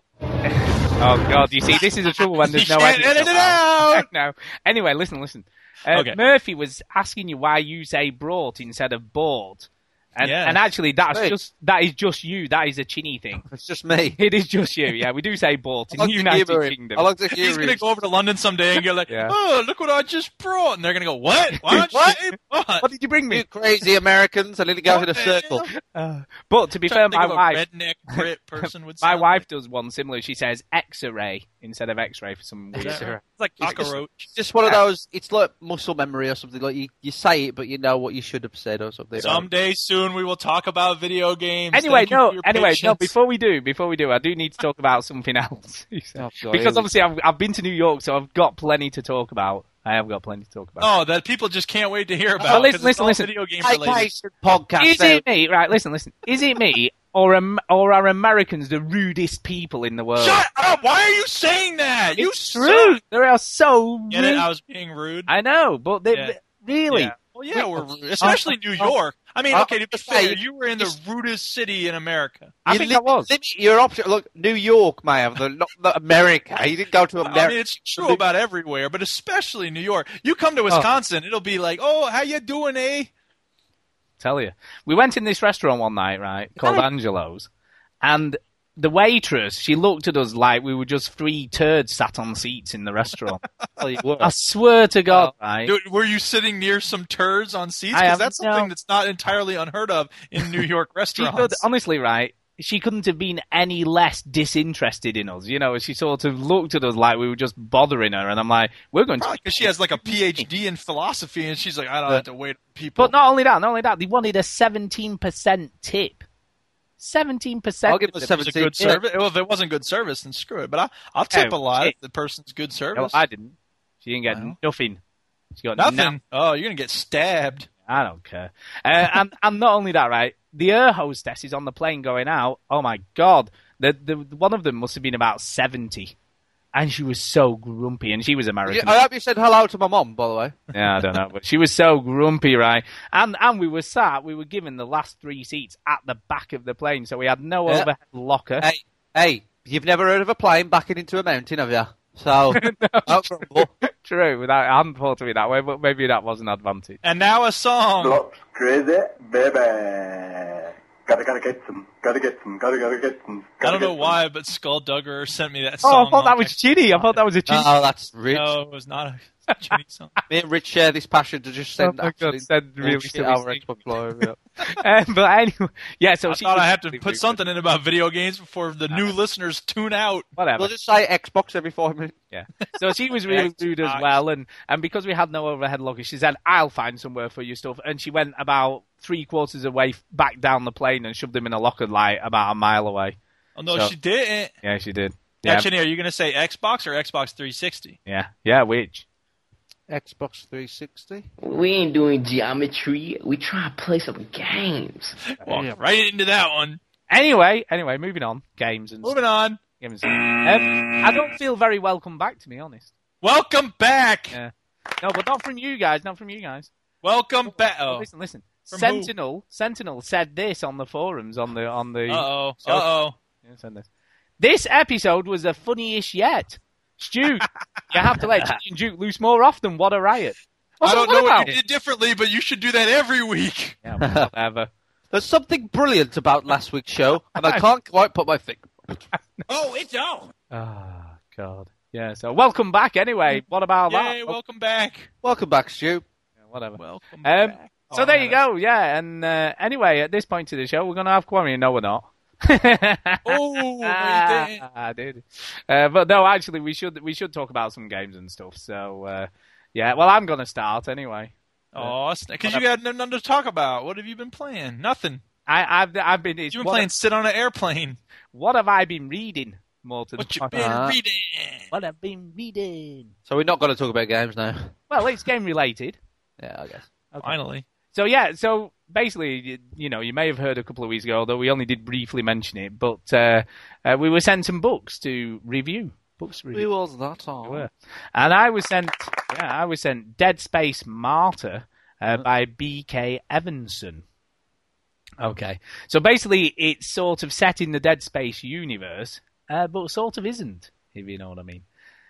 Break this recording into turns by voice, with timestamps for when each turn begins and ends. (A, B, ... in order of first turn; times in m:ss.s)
0:00.4-0:13.4 A
0:02.2-0:04.0 B
0:05.9-0:06.2 B
0:10.2-0:10.6 B
0:13.5-0:14.2 C
0:14.2-0:17.0 A
0:15.9-0:17.8 C
0:17.4-0:22.8 B
0:19.1-0:19.4 A
0:21.5-0:22.0 A
0:21.7-0:22.2 C
0:22.8-0:23.4 A
0:23.3-0:25.6 C
0:24.9-0:25.6 B
0:25.8-0:27.6 A
0:26.8-0:29.4 B
0:28.6-0:33.1 A
0:32.7-0:39.5 C
0:32.8-0:34.8 B
0:39.2-0:43.1 B
0:41.7-0:50.9 A
0:46.1-0:46.9 C
0:50.8-0:54.1 B
0:52.4-0:53.3 A
0:53.6-0:55.2 C
0:54.8-1:00.4 A
1:00.2-1:03.0 B
1:02.2-1:04.5 A
1:04.1-1:05.3 B
1:05.3-1:07.1 A
1:06.1-1:06.4 B
1:06.9-1:12.5 B
1:07.5-1:08.9 C
1:09.5-1:10.9 C
1:12.6-1:13.3 A
1:12.7-1:18.2 C
1:17.2-1:23.1 B
1:24.2-1:27.5 A
1:26.6-1:26.8 C
1:28.0-1:33.4 A
1:33.8-1:34.4 C
1:34.2-1:35.7 A
1:35.6-1:41.6 B
1:37.9-1:38.7 A
1:41.2-1:49.7 A
1:49.2-1:53.1 B
1:53.0-1:56.2 A
1:57.0-1:59.0 A
1:57.8-1:59.0 C
1:58.4-2:03.2 B
2:01.3-2:01.9 A
2:02.9-2:05.0 A
2:05.5-2:06.2 A
2:05.8-2:07.7 B
2:07.8-2:16.1 A
2:16.7-2:19.0 A
2:18.7-2:20.6 C
2:20.7-2:28.7 A
2:28.6-2:33.7 C
2:32.5-2:37.0 A
2:37.0-2:38.2 B
2:38.0-2:44.2 D
2:43.6-2:47.2 B
2:45.8-2:47.7 A
2:47.5-2:48.5 C
2:48.3-2:50.1 B
2:50.3-2:54.4 C
2:51.8-2:53.6 A
2:54.6-2:57.4 A
2:56.2-3:00.3 B
3:00.4-3:00.7 A
3:00.6-3:02.2 C
3:02.3-3:13.2 A
3:03.3-3:04.2 B
3:13.6-3:14.5 B
3:14.6-3:15.7 A
3:15.4-3:18.0 B
3:18.0-3:19.0 A
3:19.9-3:21.3 C
3:21.4-3:25.2 E
3:25.3-3:26.8 B
3:25.5-3:25.8 C
3:27.1-3:29.2 A
3:29.0-3:29.6 B
3:29.8-3:32.9 A
3:33.2-3:34.4 B
3:34.3-3:36.7 A
3:37.0-3:38.1 B
3:37.9-3:42.9 A
3:38.7-3:39.1 B
3:42.1-3:43.2 B
3:43.4-3:43.9 A
3:44.4-3:51.5 A
3:50.8-3:53.8 B
3:53.8-3:54.7 A
3:54.0-3:54.3 C
3:55.1-3:59.0 C
3:57.4-3:57.6 A
3:59.1-3:59.4 A
4:00.5-4:04.4 A
4:03.9-4:05.1 B
4:05.2-4:06.0 C
4:06.4-4:21.9 A
4:06.8-4:08.4 B
4:13.2-4:14.6 B
4:21.7-4:25.2 B
4:25.5-4:26.9 A
4:26.5-4:28.0 B
4:28.3-4:30.7 A
4:30.2-4:31.7 B
4:30.5-4:30.9 C
4:31.7-4:33.1 A
4:33.3-4:34.7 C
4:34.9-4:36.0 A
4:36.4-4:36.9 C
4:37.2-4:37.6 B
4:37.9-4:46.7 A
4:46.5-4:47.7 C
4:47.4-4:54.0 A
4:55.2-5:01.6 A